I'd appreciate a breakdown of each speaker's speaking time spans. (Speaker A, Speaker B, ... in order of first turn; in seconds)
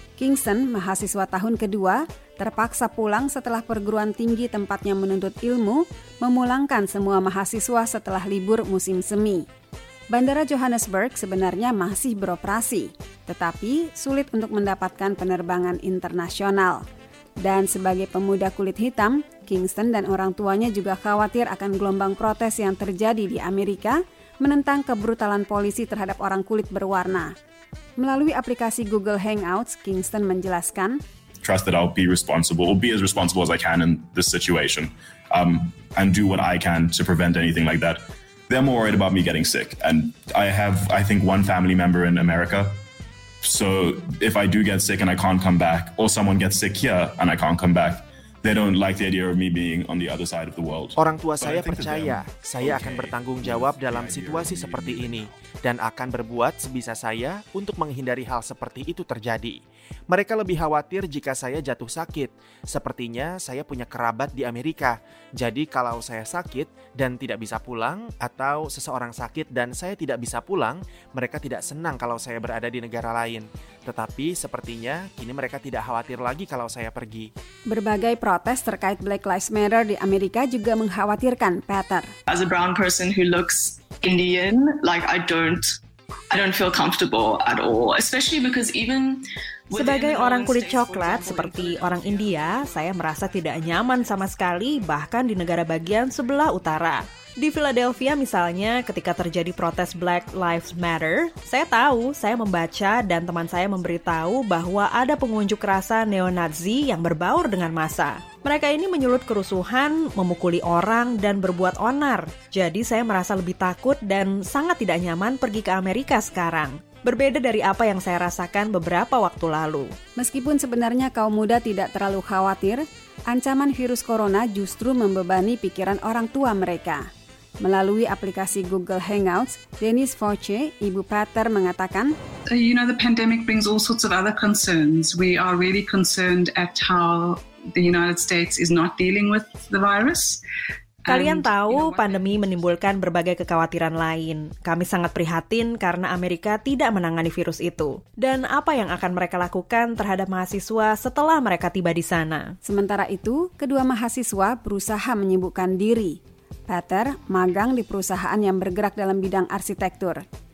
Speaker A: 0.2-9.4, 10.1-16.8, 17.4-27.3, 28.0-31.0, 77.7-82.1, 120.2-127.0, 127.6-132.2, 152.6-160.2
Speaker B: 31.4-42.8, 43.4-55.4
Speaker C: 51.0-59.6, 60.1-77.3
Speaker D: 82.3-85.6, 86.3-89.1, 89.7-92.7
Speaker E: 89.7-119.9, 141.1-152.5
Speaker F: 132.5-140.4, 141.1-142.3